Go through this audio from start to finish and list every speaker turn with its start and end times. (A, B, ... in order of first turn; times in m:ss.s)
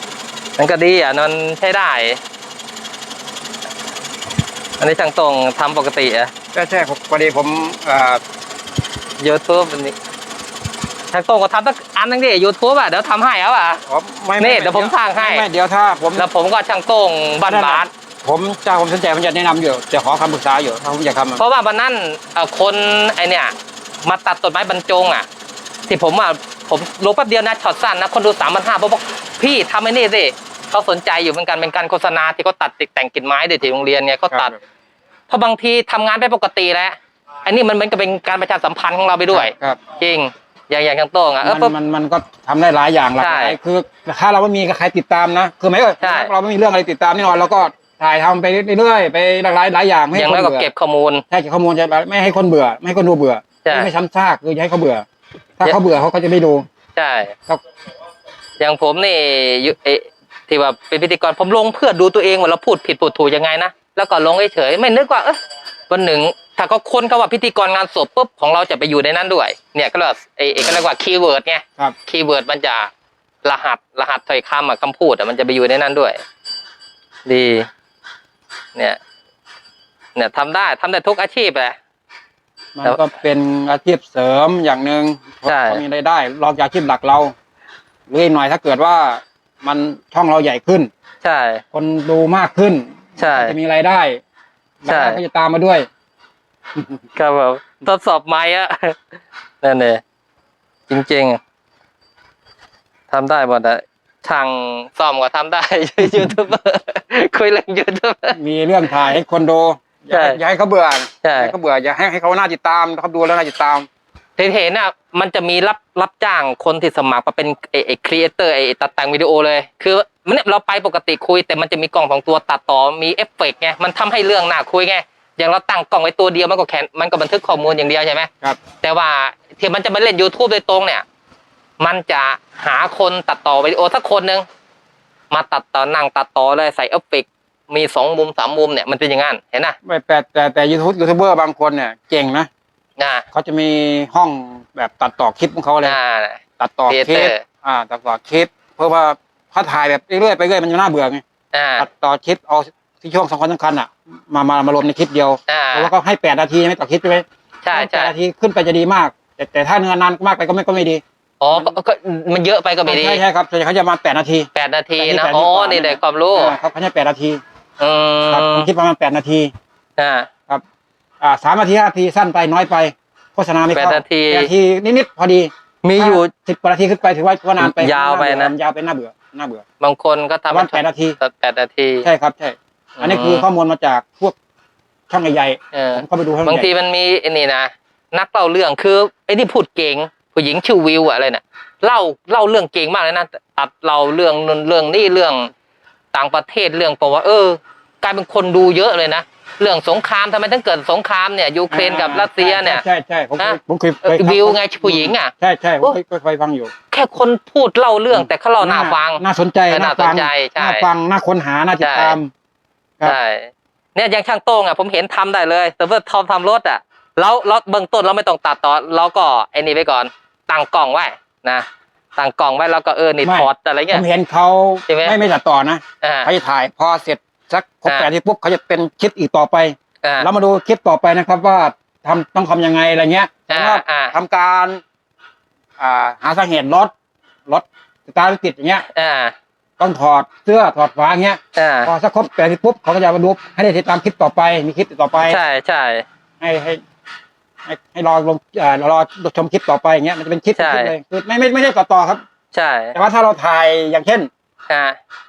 0:00.6-0:02.2 A
0:04.8-0:06.3 A
0:06.5-0:08.2 B
0:09.2-0:10.0 A
0:11.1-0:13.8 A
0:13.9-0:16.3 B
0:14.4-0:15.4 A
0:16.2-0:17.9 A
0:17.5-0:21.4 B
0:21.4-0:25.3 A
0:25.9-0:34.6 A
0:34.3-0:34.6 B
0:35.3-0:41.7 A
0:39.3-0:39.8 B
0:41.4-0:50.7 B
0:43.2-0:43.6 A
0:46.0-0:46.3 A
0:50.1-0:51.2 A
0:51.3-0:55.0 B
0:53.6-0:53.9 A
0:55.6-0:56.7 B
0:57.0-0:57.4 A
0:58.6-1:05.4 A
1:05.9-1:12.9 A
1:10.6-1:10.8 B
1:13.4-1:16.2 A
1:17.3-1:17.7 A
1:20.2-1:21.8 A
1:22.8-1:27.3 B
1:25.4-1:25.8 A
1:28.1-1:30.9 B
1:31.2-1:31.6 A
1:31.7-1:34.2 B
1:33.2-1:33.6 A
1:34.8-1:35.9 B
1:34.9-1:35.2 A
1:37.2-1:40.0 A
1:40.9-1:41.4 A
1:43.1-1:48.4 A
1:48.3-1:53.9 B
1:50.1-1:50.4 A
1:51.2-1:51.5 A
1:54.4-2:11.0 A
2:11.8-2:14.4 A
2:15.3-2:19.8 A
2:19.8-2:22.5 B
2:23.0-2:23.3 A
2:23.3-2:26.0 B
2:25.8-2:27.4 A
2:26.6-2:31.2 B
2:31.5-2:31.9 A
2:31.8-2:41.7 B
2:35.5-2:35.9 A
2:37.6-2:38.1 A
2:41.4-2:43.2 A
2:42.9-2:47.4 B
2:44.6-2:46.6 A
2:47.8-2:48.7 A
2:48.3-2:49.5 B
2:50.0-2:50.3 A
2:51.2-2:59.6 B
2:53.7-2:54.5 A
2:55.8-2:56.3 A
2:57.6-2:58.5 A
2:59.8-3:02.1 A
3:00.5-3:01.2 B
3:02.0-3:04.4 B
3:03.0-3:03.4 A
3:05.1-3:06.7 B
3:05.7-3:15.5 A
3:16.1-3:22.8 A
3:21.7-3:26.7 B
3:23.4-3:26.0 A
3:26.9-3:30.8 A
3:28.1-3:32.3 B
3:31.8-3:32.2 A
3:33.0-3:44.0 A
3:43.2-3:54.8 B
3:44.9-3:45.2 A
3:46.0-3:46.3 A
3:50.0-3:50.3 A
3:53.5-3:54.2 A
3:55.8-3:56.9 B
3:57.5-3:58.9 B
3:58.9-3:59.3 A
3:59.8-4:05.4 B
4:01.6-4:01.9 A
4:05.2-4:06.0 A
4:06.4-4:06.8 B
4:07.7-4:12.2 B
4:10.6-4:10.9 A
4:12.5-4:13.0 A
4:13.0-4:14.3 B
4:14.7-4:15.0 A